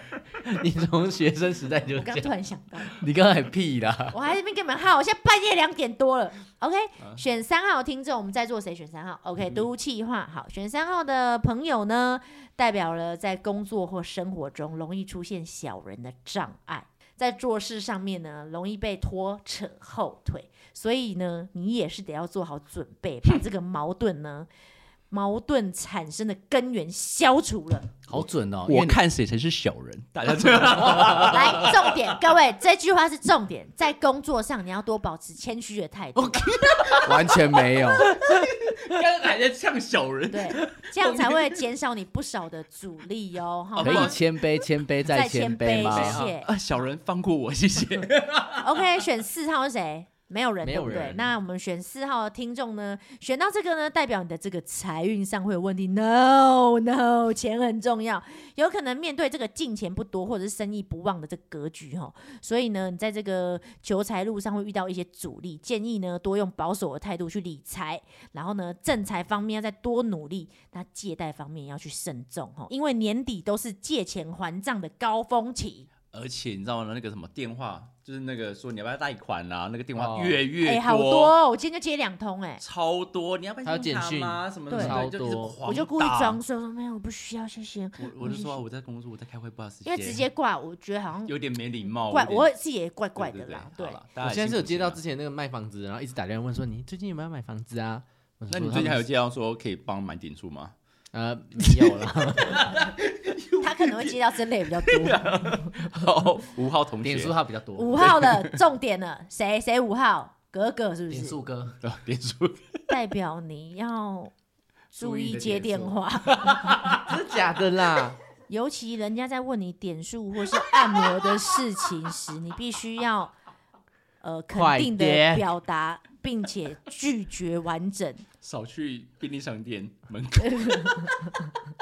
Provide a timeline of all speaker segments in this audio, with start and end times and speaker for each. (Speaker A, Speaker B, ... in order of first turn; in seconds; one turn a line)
Speaker A: 0.3-2.3
Speaker B: 1.9-3.0
Speaker C: 3.0-4.2
Speaker B: 4.1-24.5
Speaker B: 25.1-27.9
Speaker C: 28.1-29.0
Speaker D: 28.1-32.1
Speaker B: 31.2-37.0
Speaker D: 36.2-41.6
Speaker C: 37.0-38.1
Speaker A: 38.2-38.5
Speaker B: 40.3-44.2
Speaker D: 43.8-44.2
Speaker C: 43.8-46.2
Speaker B: 45.1-46.5
Speaker D: 45.9-48.9
Speaker A: 45.9-46.3
Speaker B: 48.6-75.9
Speaker A: 50.6-51.3
Speaker D: 76.1-81.3
Speaker A: 80.0-80.4
Speaker B: 80.6-82.6
Speaker D: 82.6-86.4
Speaker A: 83.6-85.6
Speaker B: 84.7-85.0
Speaker B: 85.6-88.6
Speaker D: 88.0-90.2
Speaker B: 89.8-91.3
Speaker D: 91.2-92.5
Speaker B: 92.1-94.0
Speaker D: 93.2-95.0
Speaker A: 94.2-99.0
Speaker D: 98.5-100.7
Speaker A: 101.1-102.8
Speaker D: 102.4-104.2
Speaker B: 103.6-105.7
Speaker D: 104.8-107.3
Speaker C: 107.0-108.1
Speaker B: 107.8-111.4
Speaker D: 108.0-108.6
Speaker C: 111.1-111.8
Speaker D: 111.8-112.8
Speaker B: 112.9-114.3
Speaker B: 114.9-116.6
Speaker C: 115.0-116.0
Speaker D: 116.4-117.0
Speaker A: 116.9-118.2
Speaker B: 118.5-123.3
Speaker B: 124.2-128.2
Speaker A: 124.5-125.5
Speaker D: 128.4-131.3
Speaker B: 130.4-131.5